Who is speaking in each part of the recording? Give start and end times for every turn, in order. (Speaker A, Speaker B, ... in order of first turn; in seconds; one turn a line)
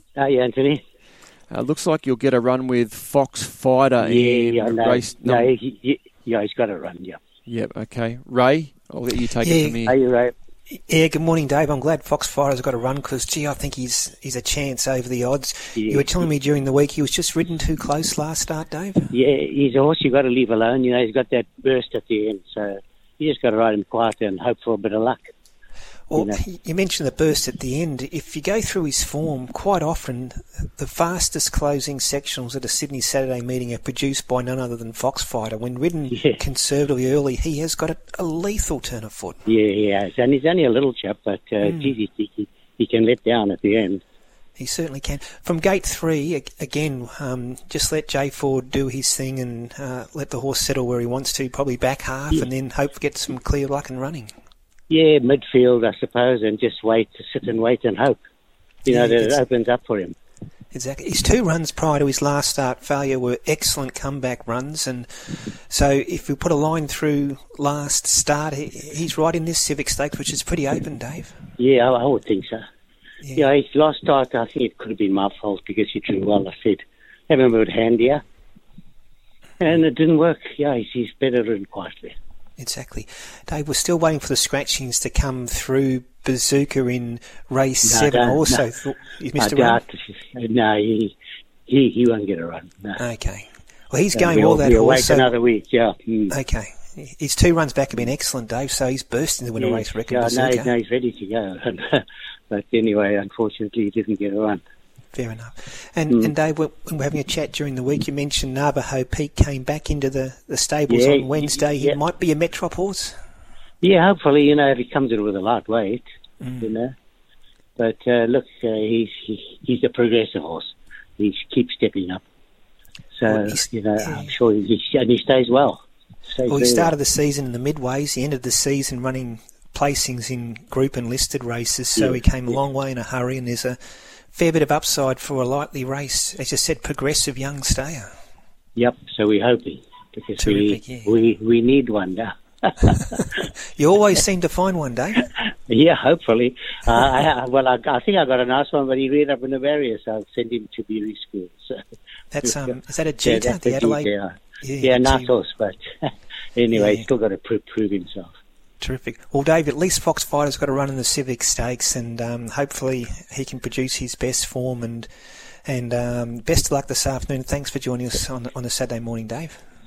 Speaker A: 0.1-0.8
Speaker B: 1.5-5.5
Speaker A: 4.0-7.2
Speaker B: 7.5-9.9
Speaker C: 9.4-9.8
Speaker A: 9.8-10.3
Speaker C: 10.7-19.1
Speaker A: 15.8-16.2
Speaker A: 19.1-25.3
Speaker C: 26.1-39.4
Speaker A: 36.1-36.4
Speaker A: 39.5-44.0
Speaker C: 41.6-41.9
Speaker C: 44.6-54.3
Speaker A: 54.9-58.2
Speaker A: 58.9-60.1
Speaker C: 58.9-59.4
Speaker C: 60.7-71.4
Speaker A: 71.6-72.6
Speaker A: 73.3-78.2
Speaker A: 79.6-82.1
Speaker C: 82.6-89.8
Speaker A: 87.8-88.7
Speaker A: 89.4-91.2
Speaker A: 91.7-93.0
Speaker C: 93.0-95.3
Speaker A: 94.1-96.3
Speaker C: 96.3-100.7
Speaker A: 99.6-104.6
Speaker C: 105.1-113.1
Speaker A: 110.9-112.0
Speaker A: 113.8-116.0
Speaker C: 116.4-116.7
Speaker A: 116.6-116.9
Speaker A: 117.8-122.2
Speaker A: 123.2-126.9
Speaker C: 123.3-124.3
Speaker C: 126.5-133.8
Speaker A: 132.0-132.2
Speaker C: 134.3-138.1
Speaker A: 138.8-143.4
Speaker C: 140.4-141.1
Speaker C: 143.2-145.3
Speaker A: 145.7-151.8
Speaker C: 152.3-154.1
Speaker A: 152.4-158.4
Speaker C: 154.6-155.3
Speaker C: 156.7-157.1
Speaker C: 158.8-165.1
Speaker C: 165.7-169.6